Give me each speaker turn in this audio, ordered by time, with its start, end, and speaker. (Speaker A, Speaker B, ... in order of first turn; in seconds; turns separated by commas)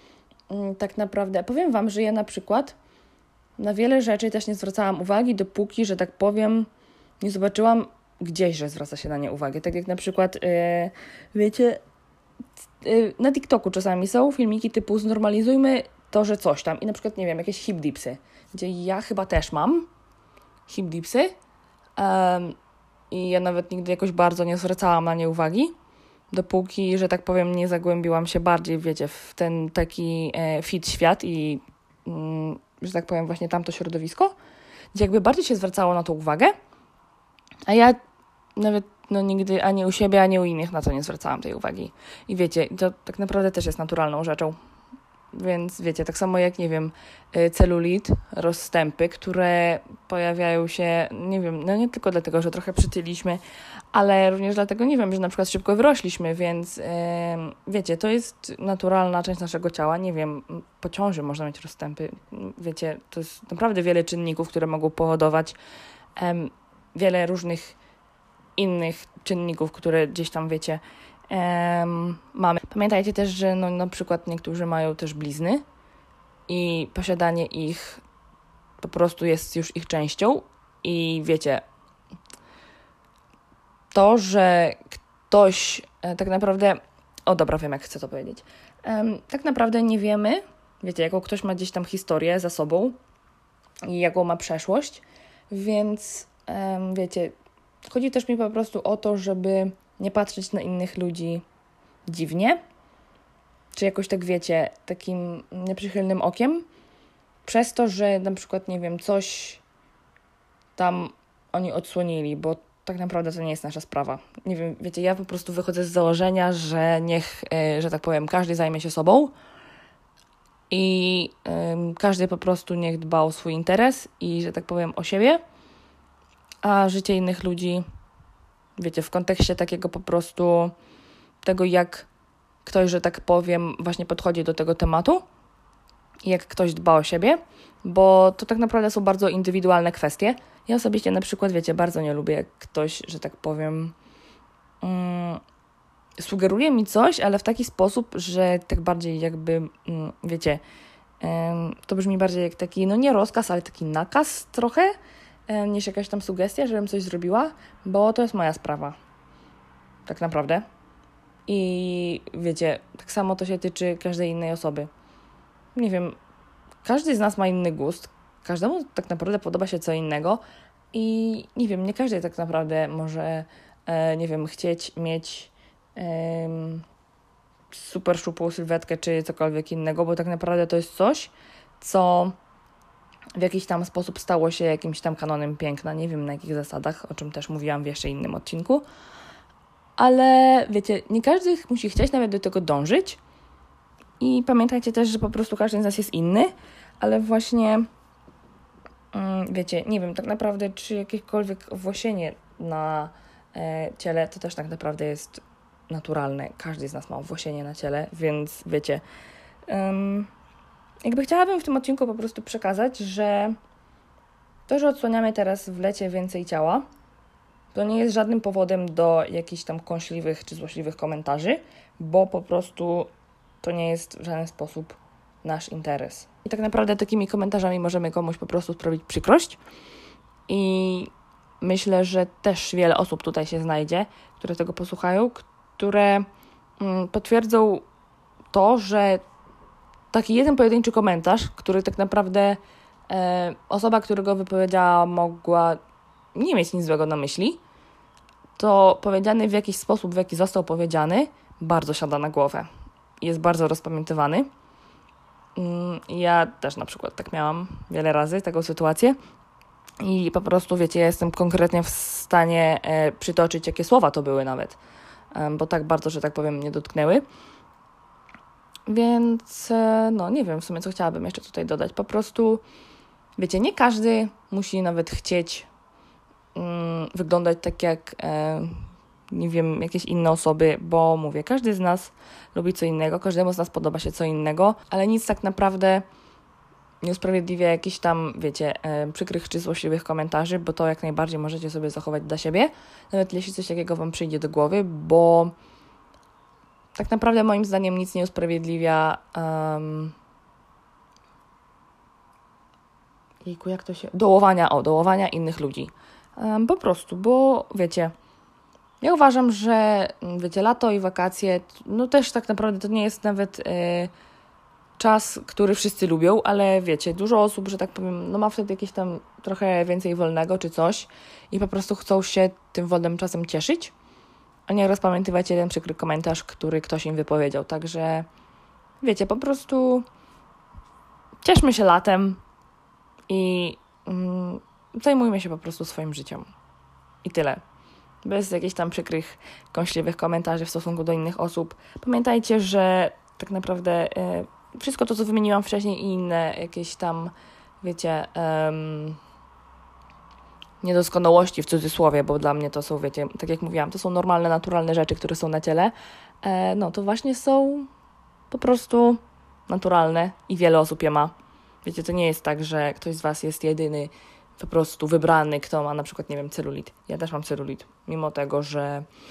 Speaker A: 0.5-2.8, Speaker A: 3.6-6.7, Speaker A: 7.2-11.8, Speaker A: 12.8-19.9, Speaker A: 20.7-21.3, Speaker A: 22.0-22.6, Speaker A: 23.1-25.7, Speaker A: 26.3-34.3, Speaker A: 34.9-36.5, Speaker A: 37.7-38.0, Speaker A: 38.6-44.6, Speaker A: 45.3-53.4, Speaker A: 53.9-65.6, Speaker A: 66.2-67.8, Speaker A: 68.6-75.6, Speaker A: 76.5-78.0, Speaker A: 78.8-81.6, Speaker A: 83.9-93.0, Speaker A: 93.8-97.3, Speaker A: 97.9-101.4, Speaker A: 102.1-102.6, Speaker A: 103.7-106.7, Speaker A: 107.5-109.6, Speaker A: 110.8-119.3, Speaker A: 120.7-125.4, Speaker A: 126.6-127.8, Speaker A: 128.8-130.7, Speaker A: 131.4-132.1, Speaker A: 132.7-135.2, Speaker A: 136.2-143.9, Speaker A: 144.8-145.4, Speaker A: 146.2-150.6, Speaker A: 151.2-154.9, Speaker A: 155.5-159.0, Speaker A: 160.1-160.7, Speaker A: 161.5-164.9, Speaker A: 165.8-166.2, Speaker A: 166.8-170.4, Speaker A: 170.9-176.8, Speaker A: 177.7-182.3, Speaker A: 183.3-188.8, Speaker A: 190.0-193.2, Speaker A: 194.2-197.9, Speaker A: 199.1-209.0, Speaker A: 209.7-210.3, Speaker A: 211.0-213.6, Speaker A: 214.7-216.9, Speaker A: 217.7-223.1, Speaker A: 223.6-229.6, Speaker A: 230.5-231.1, Speaker A: 231.6-236.3, Speaker A: 236.8-237.8, Speaker A: 238.5-239.2, Speaker A: 240.1-245.8, Speaker A: 246.3-247.6, Speaker A: 248.6-252.7, Speaker A: 253.2-254.5, Speaker A: 255.6-259.2, Speaker A: 260.0-264.8, Speaker A: 265.3-267.2, Speaker A: 268.9-272.6, Speaker A: 273.4-275.7, Speaker A: 276.6-286.0, Speaker A: 287.0-295.5, Speaker A: 296.9-300.1, Speaker A: 303.4-308.1, Speaker A: 309.0-314.1, Speaker A: 315.0-323.9, Speaker A: 324.7-328.3, Speaker A: 329.0-330.1, Speaker A: 331.4-332.4, Speaker A: 333.3-336.5, Speaker A: 337.2-337.6, Speaker A: 338.2-349.2, Speaker A: 350.8-357.9, Speaker A: 358.5-361.3, Speaker A: 361.8-369.1